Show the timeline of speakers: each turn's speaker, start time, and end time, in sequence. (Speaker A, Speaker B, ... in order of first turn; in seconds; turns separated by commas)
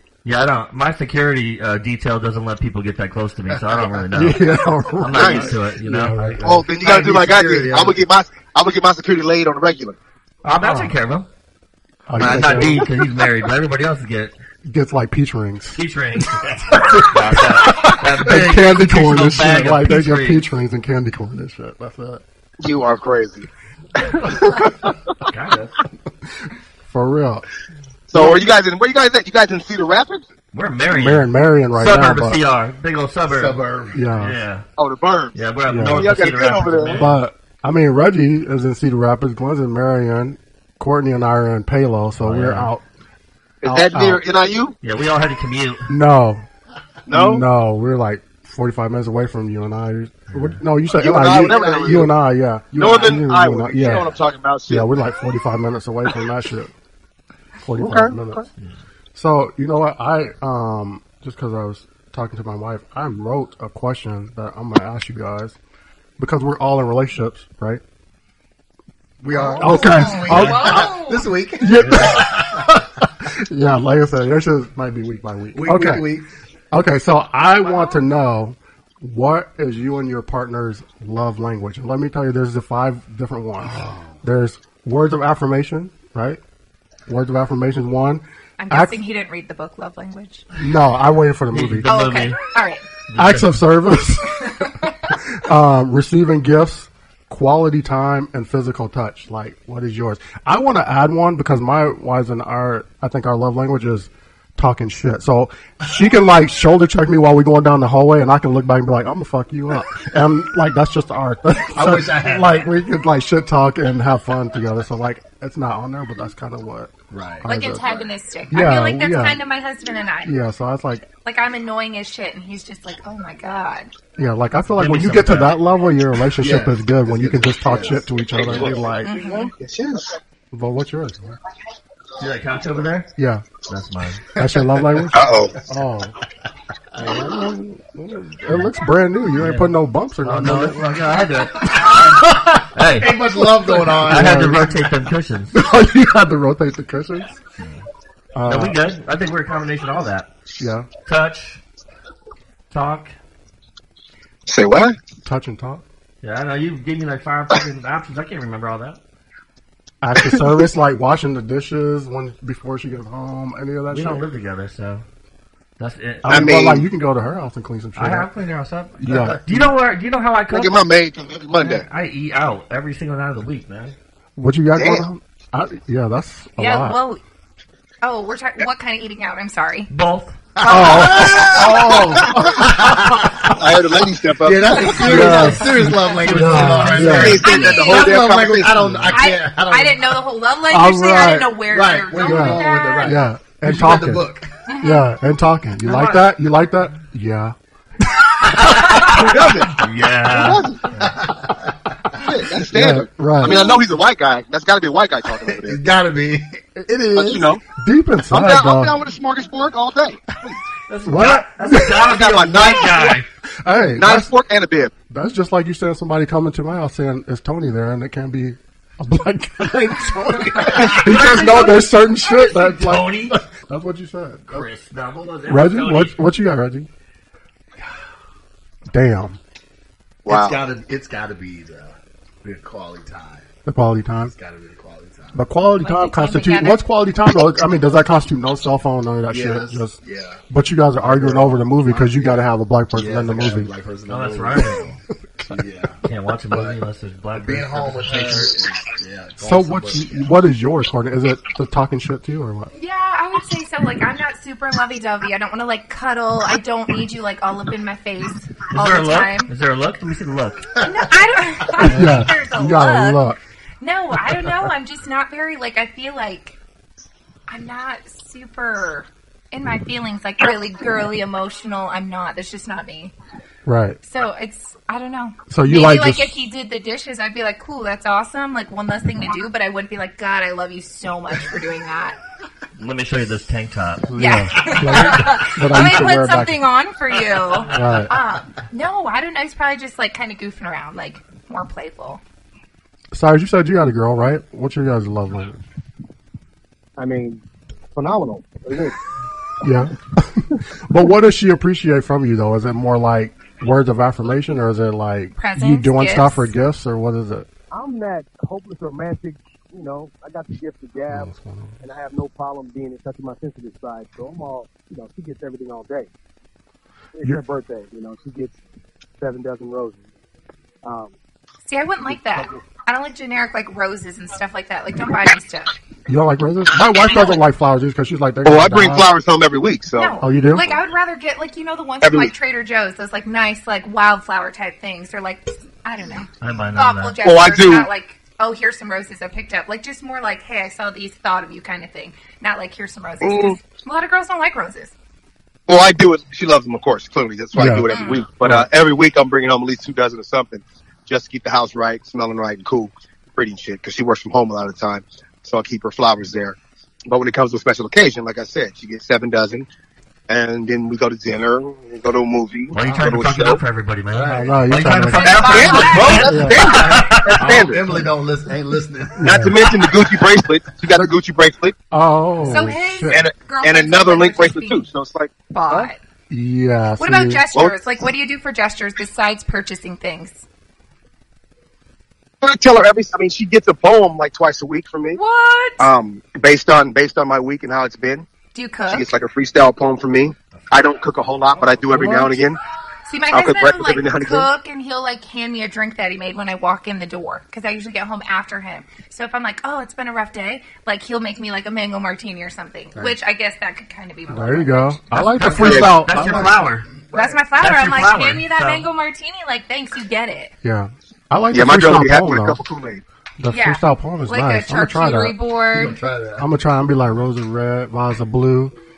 Speaker A: 0.2-7.9, Speaker B: 3.5-3.9, Speaker C: 4.1-6.6, Speaker D: 5.1-5.5, Speaker D: 6.4-10.0, Speaker B: 7.2-7.9, Speaker A: 10.4-11.3, Speaker C: 10.6-10.9, Speaker C: 12.1-12.9, Speaker A: 12.2-14.3, Speaker C: 14.6-22.2, Speaker A: 15.8-20.4, Speaker D: 22.6-23.5, Speaker C: 24.0-24.9, Speaker D: 24.1-24.9, Speaker A: 25.2-25.7, Speaker C: 26.9-27.4, Speaker D: 28.1-30.2, Speaker C: 28.1-28.4, Speaker A: 30.5-33.6, Speaker C: 30.9-32.4, Speaker B: 33.3-34.0, Speaker C: 33.9-34.4, Speaker A: 34.1-34.6, Speaker D: 34.8-35.3, Speaker A: 35.3-37.1, Speaker C: 35.7-36.2, Speaker D: 35.9-37.0, Speaker C: 36.8-42.8, Speaker A: 42.2-42.7, Speaker D: 43.6-44.7, Speaker C: 43.6-44.2, Speaker A: 44.8-45.9, Speaker C: 45.9-46.4, Speaker D: 47.1-47.4, Speaker C: 47.1-54.1, Speaker A: 50.3-50.6, Speaker D: 51.0-52.1, Speaker B: 51.5-51.9, Speaker D: 52.8-54.9, Speaker C: 54.7-56.7, Speaker C: 57.6-58.4, Speaker D: 57.8-58.5, Speaker C: 59.1-65.6, Speaker C: 66.2-67.8, Speaker B: 69.2-72.8, Speaker E: 69.3-71.3, Speaker C: 69.6-70.9, Speaker C: 71.6-76.0, Speaker B: 75.5-76.3, Speaker C: 76.7-86.4, Speaker E: 77.6-78.0, Speaker B: 83.7-84.2, Speaker C: 87.1-89.0, Speaker E: 88.6-90.4, Speaker C: 90.6-91.9, Speaker A: 91.5-92.4, Speaker E: 91.9-92.8, Speaker A: 93.1-93.6, Speaker C: 93.1-119.4, Speaker B: 111.7-112.7, Speaker B: 117.1-118.0, Speaker E: 117.5-120.3, Speaker C: 120.2-121.0, Speaker E: 121.2-123.9, Speaker C: 124.2-129.1, Speaker A: 124.7-125.6, Speaker B: 126.4-128.7, Speaker D: 128.3-130.2, Speaker E: 129.0-129.5, Speaker C: 130.5-131.4, Speaker A: 132.2-133.1, Speaker C: 133.2-133.4, Speaker A: 133.7-134.2, Speaker C: 134.3-136.2, Speaker D: 135.1-135.6, Speaker C: 137.0-141.0, Speaker A: 139.4-143.2, Speaker C: 141.6-142.6, Speaker B: 141.7-142.3, Speaker B: 142.8-144.5, Speaker C: 143.6-144.9, Speaker A: 143.7-145.6, Speaker C: 145.5-147.3, Speaker C: 148.3-148.8, Speaker A: 148.4-150.3, Speaker C: 150.6-150.9, Speaker A: 151.0-151.6, Speaker A: 152.7-153.1, Speaker D: 154.4-155.0, Speaker C: 155.2-155.8, Speaker A: 156.2-159.0, Speaker C: 160.0-164.3, Speaker A: 163.9-165.0, Speaker A: 165.8-166.6, Speaker C: 166.2-168.3, Speaker D: 166.2-166.9, Speaker A: 167.9-170.8, Speaker C: 169.0-169.7, Speaker D: 170.5-171.8, Speaker A: 171.6-173.9, Speaker C: 174.4-177.0, Speaker D: 174.7-175.1, Speaker E: 176.6-177.2, Speaker E: 178.0-179.9, Speaker A: 179.9-180.4, Speaker B: 180.6-183.6, Speaker C: 180.7-183.6, Speaker E: 180.8-181.2, Speaker D: 183.5-185.4, Speaker B: 184.4-190.2, Speaker C: 184.9-187.4, Speaker A: 185.2-187.3, Speaker D: 187.1-189.1, Speaker E: 187.2-188.1, Speaker E: 189.1-193.2, Speaker C: 190.7-191.6, Speaker B: 191.7-194.6, Speaker C: 192.2-194.2, Speaker E: 194.7-195.1, Speaker C: 194.8-197.5, Speaker A: 195.8-196.3, Speaker B: 198.4-199.7, Speaker D: 198.7-200.9, Speaker A: 198.8-201.1, Speaker B: 200.9-202.3, Speaker D: 202.2-205.8, Speaker C: 202.7-203.6, Speaker B: 205.4-207.5, Speaker D: 207.1-207.6, Speaker C: 207.1-209.0, Speaker D: 208.3-210.6, Speaker A: 210.9-213.2, Speaker C: 211.0-212.1, Speaker D: 212.0-213.2, Speaker C: 213.6-214.3, Speaker D: 213.9-214.9, Speaker C: 215.1-224.7, Speaker A: 220.8-223.4, Speaker A: 224.5-226.2, Speaker C: 225.5-226.9, Speaker C: 228.9-229.4, Speaker D: 230.2-230.6, Speaker B: 230.3-233.5, Speaker C: 233.6-234.3, Speaker B: 234.3-235.4, Speaker C: 235.3-240.0, Speaker E: 235.8-236.8, Speaker B: 239.3-240.4, Speaker C: 240.5-243.7, Speaker B: 241.0-242.4, Speaker B: 242.9-244.9, Speaker A: 244.1-245.0, Speaker B: 245.5-246.8, Speaker A: 246.0-248.5, Speaker B: 247.3-250.3, Speaker C: 249.4-252.7, Speaker E: 252.7-259.5, Speaker A: 258.7-260.7, Speaker E: 260.8-263.2, Speaker C: 261.8-263.4, Speaker E: 263.8-266.6, Speaker E: 267.5-273.1, Speaker C: 273.6-274.0, Speaker E: 274.0-282.2, Speaker C: 275.5-276.4, Speaker A: 282.8-285.2, Speaker C: 284.1-286.6, Speaker E: 284.2-292.2, Speaker A: 287.5-288.0, Speaker C: 287.7-288.1, Speaker C: 293.1-295.6, Speaker D: 297.0-297.4, Speaker D: 297.9-298.9, Speaker C: 299.6-307.5, Speaker E: 305.4-306.5, Speaker F: 307.7-311.3, Speaker C: 311.1-311.8, Speaker F: 311.8-316.1, Speaker F: 317.1-318.6, Speaker F: 319.2-320.0, Speaker F: 320.8-321.1, Speaker E: 321.6-325.7, Speaker C: 326.1-329.1, Speaker D: 328.4-330.2, Speaker E: 330.0-344.9, Speaker C: 330.2-330.7, Speaker D: 332.0-332.3, Speaker A: 336.4-337.2, Speaker D: 337.2-337.9, Speaker D: 343.2-343.6, Speaker D: 345.7-356.6, Speaker C: 347.5-347.9, Speaker E: 347.9-348.2, Speaker C: 348.4-348.7, Speaker D: 357.1-359.6, Speaker D: 360.3-363.6, Speaker A: 362.7-367.6, Speaker B: 364.1-364.7, Speaker C: 364.3-366.6, Speaker E: 365.1-366.6, Speaker D: 365.4-367.8, Speaker B: 366.7-369.5, Speaker C: 369.2-369.6, Speaker D: 369.2-371.8, Speaker C: 371.9-373.2, Speaker E: 372.4-374.8, Speaker D: 373.1-375.9, Speaker E: 375.5-376.0, Speaker C: 376.3-377.4, Speaker E: 377.0-380.4, Speaker D: 382.4-385.2, Speaker E: 385.1-385.9, Speaker D: 385.8-388.2, Speaker E: 388.5-389.1, Speaker D: 388.9-392.6, Speaker C: 391.9-392.4, Speaker E: 393.1-405.0, Speaker D: 393.3-394.5, Speaker C: 404.3-406.6, Speaker A: 405.1-406.9, Speaker B: 405.4-407.4, Speaker D: 405.6-406.0, Speaker E: 407.1-410.5, Speaker A: 407.6-408.9, Speaker C: 410.6-412.6, Speaker D: 411.5-413.0, Speaker C: 413.4-415.4, Speaker E: 413.5-416.0, Speaker B: 415.7-416.5, Speaker C: 416.4-418.7